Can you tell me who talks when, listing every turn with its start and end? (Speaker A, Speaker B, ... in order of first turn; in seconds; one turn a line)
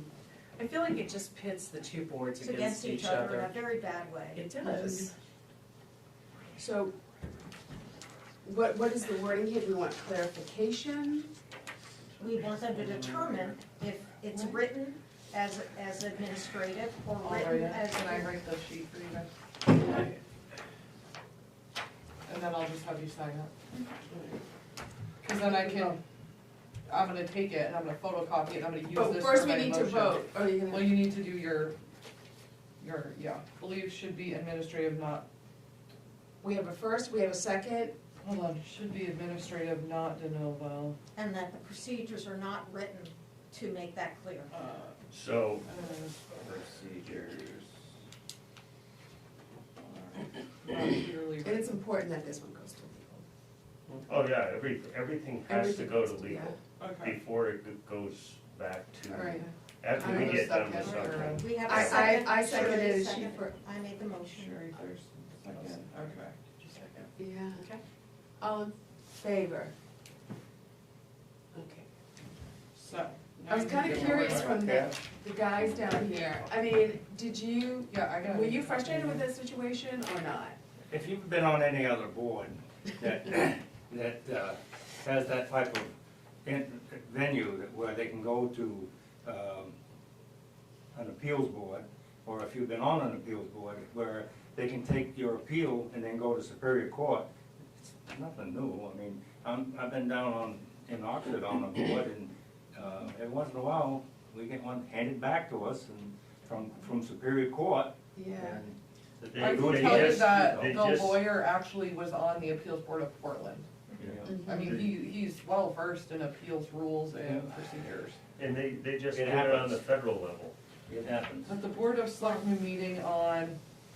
Speaker A: 0.6-3.5
Speaker B: 2.4-4.5
Speaker A: 4.3-5.1
Speaker C: 4.6-5.1
Speaker C: 6.5-6.9
Speaker C: 8.4-11.3
Speaker B: 12.2-18.3
Speaker D: 17.2-19.3
Speaker D: 22.3-23.5
Speaker C: 23.8-24.2
Speaker D: 25.2-26.0
Speaker D: 26.9-31.7
Speaker C: 28.9-31.1
Speaker D: 32.8-35.2
Speaker C: 36.4-37.9
Speaker D: 38.2-41.0
Speaker B: 41.1-44.7
Speaker D: 44.5-44.9
Speaker E: 45.1-45.6
Speaker D: 45.7-46.2
Speaker E: 46.2-47.6
Speaker D: 49.8-51.8
Speaker C: 51.4-53.2
Speaker E: 54.1-62.8
Speaker C: 55.5-56.5
Speaker D: 56.8-57.1
Speaker C: 59.1-63.5
Speaker D: 60.0-60.3
Speaker B: 60.4-64.8
Speaker D: 61.0-61.5
Speaker D: 64.3-67.1
Speaker C: 67.2-67.7
Speaker C: 68.4-69.7
Speaker A: 71.5-71.8
Speaker D: 72.7-74.7
Speaker C: 73.5-80.5
Speaker F: 73.8-74.9
Speaker D: 77.9-79.2
Speaker F: 80.9-85.9
Speaker F: 86.4-89.7
Speaker F: 90.9-110.8
Speaker C: 108.2-108.6
Speaker E: 109.2-111.2
Speaker D: 109.4-113.7
Speaker F: 114.0-114.7
Speaker E: 114.0-114.9
Speaker C: 114.2-114.8
Speaker D: 114.4-118.2
Speaker F: 117.1-117.5
Speaker E: 118.4-120.5
Speaker F: 119.1-119.8
Speaker F: 120.9-121.5
Speaker D: 121.5-123.6